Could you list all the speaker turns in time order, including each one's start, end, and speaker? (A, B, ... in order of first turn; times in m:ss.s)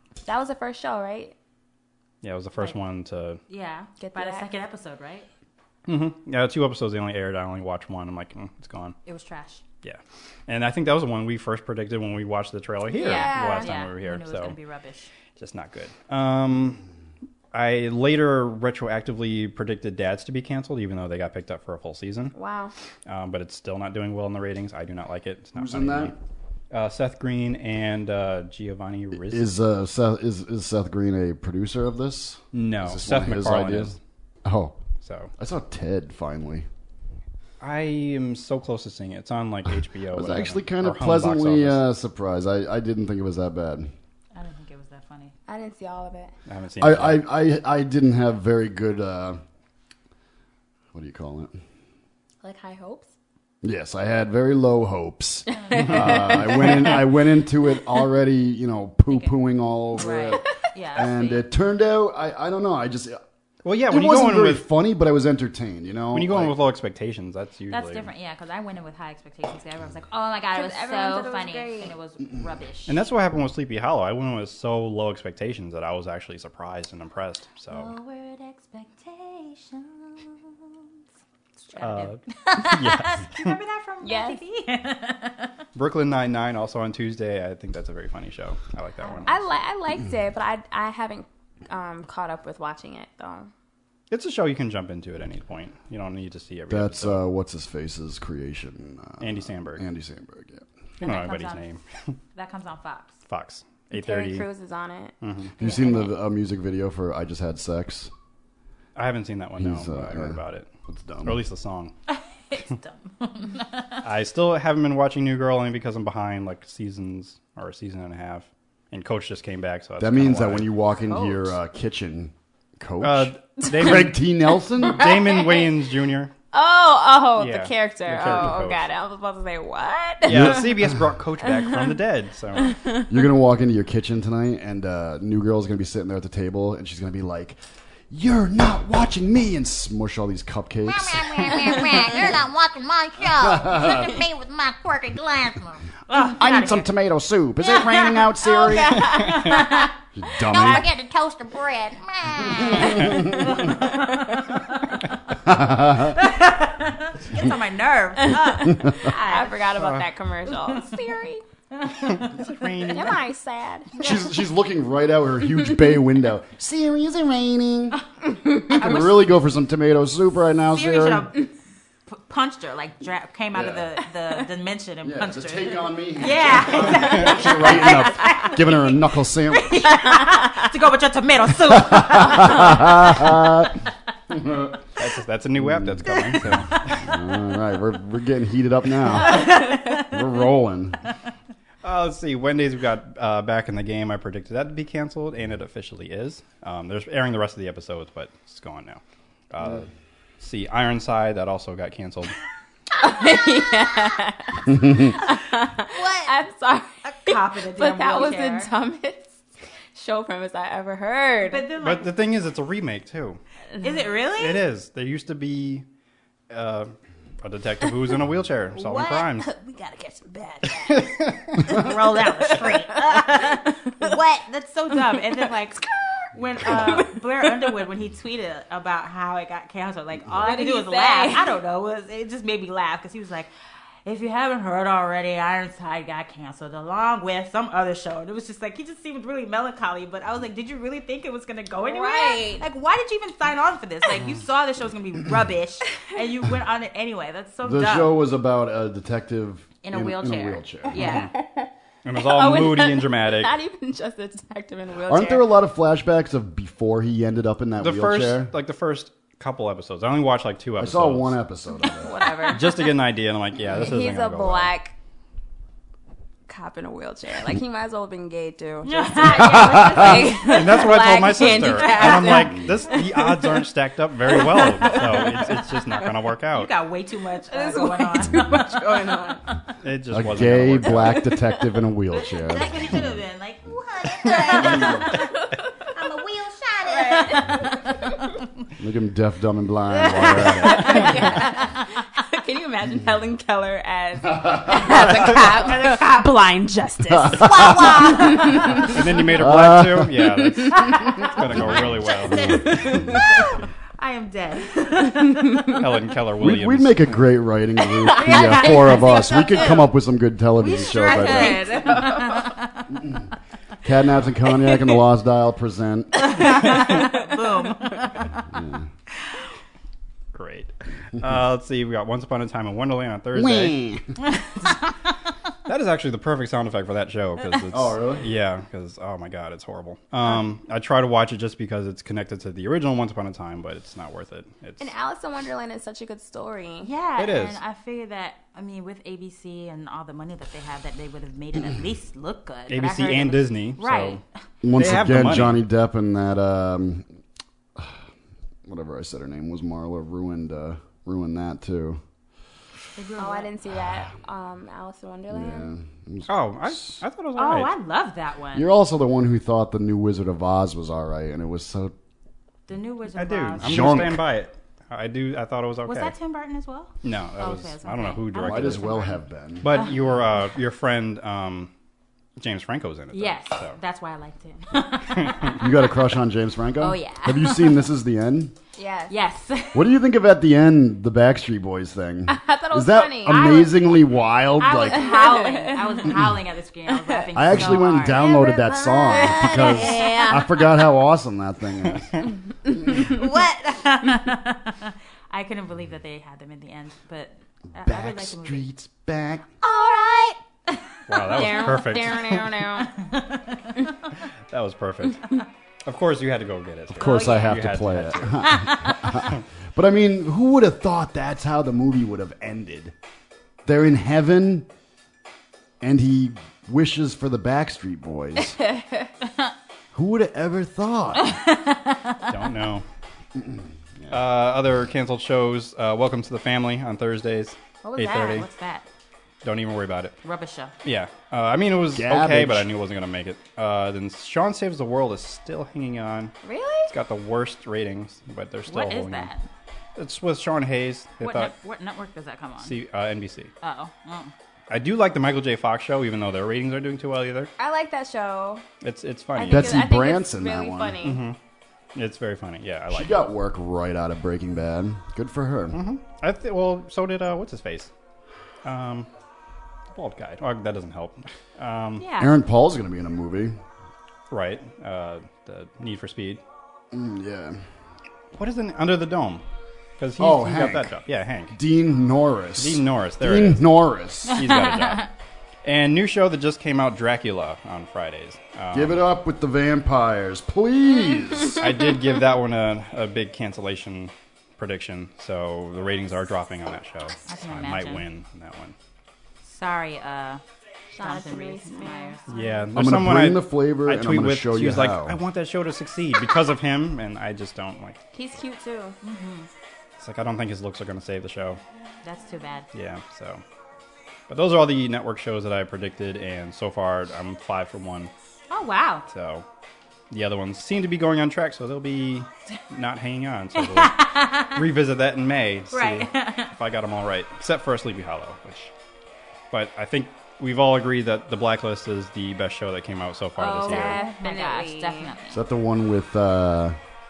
0:00.2-0:01.3 A
0:02.2-0:03.4 B
0:03.5-0:05.3 C
0:04.0-0:04.5 A
0:05.9-0:09.0 B
0:09.0-0:09.6 C
0:09.8-0:14.6 B
0:12.9-0:13.8 A
0:13.0-0:15.1 C
0:15.4-0:16.8 B
0:17.5-0:22.3 B
0:22.3-0:22.7 A
0:23.0-0:26.1 B
0:25.6-0:26.1 D
0:26.7-0:29.5 B
0:29.2-0:34.8 D
0:32.5-0:34.0 B
0:35.0-0:35.3 B
0:35.4-0:36.6 D
0:37.6-0:41.8 B
0:40.1-0:43.9 D
0:44.3-0:45.3 C
0:45.5-0:46.3 A
0:46.5-0:47.2 B
0:46.8-0:49.4 D
0:50.9-0:51.6 D
0:52.4-0:53.1 A
0:53.6-1:00.4 D
0:55.5-0:56.1 C
0:55.7-0:56.9 A
0:56.1-0:56.7 B
0:59.1-0:59.3 C
0:59.9-1:01.5 C
1:00.9-1:03.2 D
1:03.6-1:04.7 B
1:03.9-1:06.6 D
1:06.1-1:08.1 B
1:07.7-1:13.0 C
1:10.5-1:11.9 A
1:12.9-1:17.9 B
1:17.7-1:20.8 C
1:21.6-1:25.6 C
1:21.8-1:23.5 B
1:24.0-1:24.4 A
1:25.7-1:29.4 B
1:29.2-1:33.5 A
1:34.1-1:37.2 B
1:36.7-1:40.6 D
1:39.2-1:39.8 B
1:41.0-1:41.7 C
1:41.0-1:42.2 B
1:42.3-1:43.2 C
1:43.3-1:44.5 B
1:43.9-1:46.0 A
1:45.2-1:45.5 B
1:45.6-1:48.1 D
1:45.6-1:46.1 C
1:49.0-1:50.7 B
1:49.6-1:51.4 D
1:51.2-1:51.9 B
1:52.1-1:54.0 C
1:54.0-2:00.7 B
2:00.0-2:05.1 D
2:01.1-2:01.4 A
2:03.0-2:04.2 B
2:04.8-2:06.3 B
2:04.9-2:05.7 A
2:06.5-2:10.6 A
2:07.4-2:08.8 B
2:10.2-2:12.8 B
2:10.3-2:11.0 D
2:12.7-2:13.0 A
2:13.1-2:17.6 D
2:18.1-2:22.1 D
2:20.8-2:25.8 E
2:23.4-2:24.1 D
2:26.1-2:26.9 C
2:26.3-2:29.2 D
2:28.7-2:29.6 A
2:30.1-2:30.8 D
2:30.4-2:33.1 E
2:32.6-2:33.3 D
2:33.4-2:34.4 C
2:35.4-2:36.2 D
2:36.0-2:39.7 C
2:38.3-2:41.4 A
2:39.7-2:40.1 B
2:41.8-2:42.4 C
2:42.1-2:43.2 B
2:42.9-2:44.1 A
2:44.0-2:48.0 D
2:48.6-2:49.0 A
2:48.7-2:51.3 D
2:48.7-2:49.3 C
2:50.7-2:51.5 C
2:52.1-3:03.2 C
2:53.5-2:53.9 D
2:55.0-2:59.9 D
3:01.7-3:04.8 D
3:05.0-3:07.1 B
3:05.6-3:06.4 D
3:07.0-3:11.0 D
3:09.2-3:10.1 C
3:11.8-3:19.9 B
3:20.4-3:22.3 B
3:23.0-3:29.4 A
3:25.9-3:26.3 E
3:27.0-3:28.7 C
3:29.9-3:31.7 A
3:31.4-3:32.1 C
3:31.8-3:33.4 B
3:33.8-3:34.0 A
3:33.8-3:34.6 C
3:34.4-3:35.8 B
3:36.5-3:39.5 B
3:38.8-3:53.5 C
3:40.8-3:41.7 B
3:42.5-3:43.3 A
3:46.6-3:47.5 A
3:50.3-3:51.6 A
3:54.0-4:08.2 C
4:01.8-4:02.7 A
4:07.6-4:11.2 D
4:09.8-4:11.3 C
4:11.0-4:15.5 A
4:11.0-4:11.3 B
4:12.0-4:13.6 B
4:15.0-4:18.5 D
4:17.8-4:21.4 B
4:20.8-4:22.2 D
4:21.9-4:22.8 A
4:22.5-4:24.7 B
4:23.7-4:24.9 A
4:26.5-4:33.6 A
4:28.8-4:30.8 C
4:29.4-4:30.2 D
4:30.4-4:36.7 B
4:31.5-4:32.5 C
4:34.3-4:35.7 A
4:36.5-4:38.8 C
4:37.5-4:39.4 A
4:39.8-4:41.3 B
4:40.1-4:42.9 D
4:41.2-4:41.5 A
4:42.1-4:45.3 C
4:44.4-4:45.6 A
4:44.4-4:44.7 E
4:44.6-4:45.0 D
4:45.9-4:47.9 C
4:46.8-4:48.1 A
4:48.8-4:51.4 D
4:50.0-4:56.1 A
4:50.3-4:51.4 C
4:55.3-4:56.6 C
4:57.0-4:57.3 A
4:57.1-5:03.2 D
4:57.4-4:58.4 E
4:57.4-4:58.4 C
4:58.2-4:58.8 A
4:58.8-5:03.0 B
5:00.9-5:01.4 C
5:02.3-5:05.8 C
5:02.7-5:03.2 A
5:05.1-5:05.7 A
5:05.7-5:07.2 B
5:06.4-5:11.9 D
5:08.0-5:09.5 A
5:08.1-5:09.8 C
5:10.6-5:12.8 C
5:10.7-5:12.6 A
5:13.8-5:16.6 D
5:16.3-5:18.4 C
5:16.7-5:17.2 A
5:18.5-5:18.8 D
5:20.3-5:23.8 B
5:23.3-5:24.1 D
5:25.6-5:34.9 B
5:27.7-5:28.3 D
5:34.8-5:36.9 A
5:36.8-5:44.2 C
5:37.2-5:37.6 B
5:42.7-5:44.2 B
5:44.6-5:47.0 D
5:44.7-5:45.6 B
5:48.6-5:52.0 D
5:53.0-5:53.5 C
5:53.2-5:55.7 A
5:55.3-5:57.0 D
5:56.3-5:57.7 B
5:57.4-5:58.7 C
5:58.5-6:01.9 D
6:02.7-6:04.0 C
6:03.1-6:06.1 B
6:03.6-6:04.2 D
6:05.8-6:09.9 C
6:07.0-6:08.9 B
6:08.4-6:09.7 D
6:09.6-6:11.7 B
6:12.4-6:13.8 B
6:13.1-6:15.7 C
6:15.2-6:15.6 B
6:15.6-6:18.5 D
6:16.8-6:17.8 C
6:18.8-6:19.2 A
6:19.1-6:19.9 C
6:19.7-6:25.2 D
6:22.3-6:23.7 A
6:23.3-6:23.8 C
6:24.6-6:30.3 C
6:24.9-6:26.1 A
6:26.9-6:27.6 A
6:27.3-6:32.2 D
6:29.0-6:30.2 A
6:29.2-6:30.5 E
6:32.9-6:38.7 C
6:37.8-6:39.5 D
6:41.1-6:42.6 B
6:41.1-6:42.9 A
6:42.9-6:43.9 C
6:44.5-6:49.4 B
6:46.9-6:52.9 D
6:47.1-6:47.5 C
6:48.6-6:49.1 C
6:53.6-6:54.7 D
6:55.8-6:58.6 D
6:58.6-6:59.1 A
6:59.9-7:01.4 D
7:01.2-7:02.2 C
7:02.3-7:02.8 B
7:03.4-7:04.2 D
7:04.1-7:08.5 B
7:07.8-7:08.8 C
7:09.4-7:10.2 B
7:10.2-7:10.7 C
7:10.8-7:16.3 B
7:11.9-7:12.7 D
7:16.4-7:16.9 A
7:16.9-7:19.3 B
7:18.7-7:19.5 C
7:20.0-7:21.5 B
7:21.2-7:22.8 C
7:22.6-7:23.5 B
7:23.6-7:24.3 C
7:24.7-7:27.5 B
7:27.6-7:28.6 A
7:28.8-7:29.9 B
7:29.3-7:31.2 A
7:29.4-7:31.2 D
7:31.0-7:31.4 B
7:31.9-7:33.2 B
7:32.9-7:35.8 D
7:35.7-7:37.9 B
7:38.6-7:39.1 B
7:39.9-7:42.1 B
7:42.0-7:42.3 C
7:42.2-7:43.6 D
7:44.3-7:46.4 B
7:46.9-7:47.6 D
7:48.4-7:49.4 B
7:50.0-7:51.6 B
7:50.2-7:51.0 D
7:51.5-7:54.5 D
7:52.6-7:53.7 B
7:54.2-7:55.1 B
7:54.4-7:55.1 C
7:55.6-7:59.0 B
7:58.7-8:01.8 D
8:01.5-8:08.8 B
8:07.2-8:08.0 C
8:09.4-8:10.4 C
8:10.9-8:12.2 A
8:11.0-8:12.7 C
8:12.3-8:18.0 B
8:12.7-8:15.2 D
8:18.1-8:19.0 A
8:19.0-8:19.5 C
8:20.0-8:21.6 B
8:22.0-8:22.7 C
8:22.7-8:23.4 B
8:24.3-8:28.1 B
8:28.5-8:29.1 C
8:29.1-8:29.4 B
8:30.1-8:38.7 B
8:33.6-8:34.6 C
8:35.7-8:36.5 C
8:39.5-8:44.0 B
8:43.4-8:45.1 A
8:43.4-8:45.4 C
8:45.3-8:46.8 D